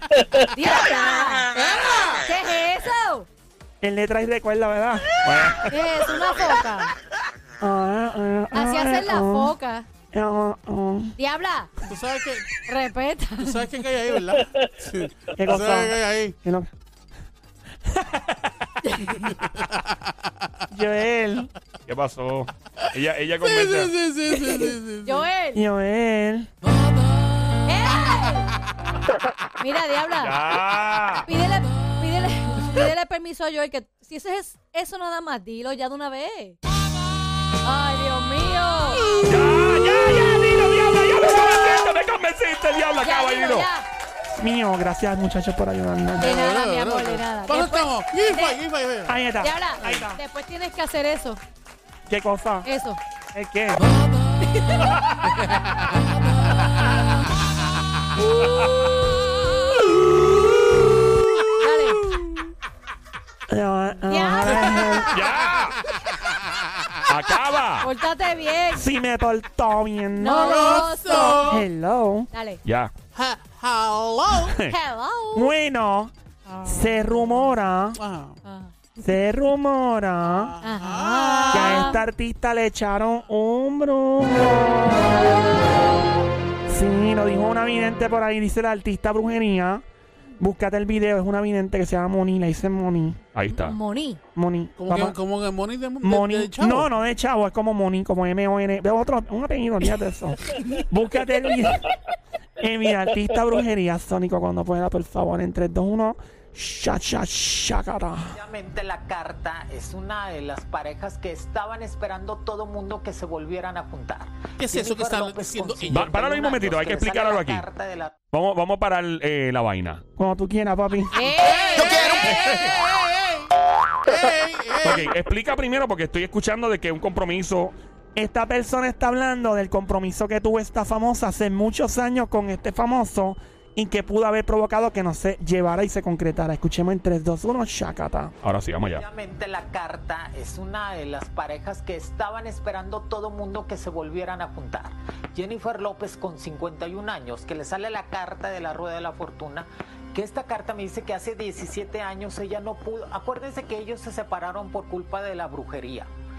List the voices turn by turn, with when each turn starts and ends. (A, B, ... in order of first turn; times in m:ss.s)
0:00.2-0:00.4 A
0:00.5-0:03.3 B
0:01.9-0:02.2 C
0:03.8-0:05.2 D
0:05.2-0:05.7 A
0:05.7-0:06.9 B
0:07.6-0:09.6 D
0:08.5-0:09.9 B
0:10.1-0:11.1 D
0:11.2-0:11.8 B
0:11.8-0:12.5 C
0:12.6-0:13.7 B
0:13.4-0:16.4 C
0:15.4-0:16.7 D
0:18.8-0:19.2 B
0:19.2-0:20.5 C
0:20.7-0:21.5 D
0:21.9-0:23.9 A
0:23.4-0:25.3 C
0:24.4-0:25.6 B
0:25.5-0:26.5 D
0:27.6-0:28.5 B
0:29.6-0:30.4 B
0:30.2-0:31.3 A
0:31.2-0:36.6 B
0:37.6-0:39.2 B
0:39.2-0:43.7 A
0:41.4-0:41.9 B
0:43.0-0:43.9 B
0:44.4-0:46.3 D
0:46.2-0:49.2 C
0:46.2-0:48.6 B
0:49.1-0:50.2 D
0:49.4-0:51.4 B
0:49.8-0:50.1 C
0:52.1-0:52.7 D
0:52.6-0:53.0 B
0:53.3-0:53.8 D
0:54.4-0:55.0 B
0:55.4-0:56.0 C
0:58.6-0:58.9 A
1:01.6-1:02.0 B
1:03.5-1:05.2 D
1:04.1-1:05.1 B
1:05.1-1:05.8 A
1:05.2-1:07.1 C
1:07.1-1:07.9 A
1:07.8-1:08.9 B
1:08.7-1:12.3 D
1:10.2-1:11.6 B
1:10.4-1:11.6 C
1:12.3-1:12.6 B
1:12.6-1:12.9 A
1:13.2-1:14.6 C
1:14.4-1:14.7 A
1:14.7-1:15.5 B
1:15.3-1:16.1 D
1:16.5-1:17.5 B
1:16.6-1:18.0 D
1:18.0-1:18.4 C
1:18.4-1:18.8 B
1:19.0-1:20.6 D
1:20.2-1:21.9 C
1:20.6-1:22.0 B
1:21.5-1:25.4 D
1:25.3-1:25.7 B
1:26.7-1:29.8 D
1:30.4-1:33.2 D
1:33.3-1:33.8 A
1:33.5-1:34.2 B
1:34.4-1:35.2 D
1:34.8-1:36.9 C
1:36.0-1:41.9 D
1:42.6-1:48.4 D
1:48.2-1:58.2 E
1:54.6-1:56.1 C
1:55.9-1:57.6 A
1:58.3-2:00.0 A
2:00.2-2:01.2 D
2:01.1-2:02.3 B
2:01.3-2:03.5 C
2:02.2-2:02.8 A
2:04.0-2:05.1 C
2:04.8-2:07.8 A
2:08.2-2:18.4 D
2:18.4-2:19.0 A
2:18.9-2:36.1 E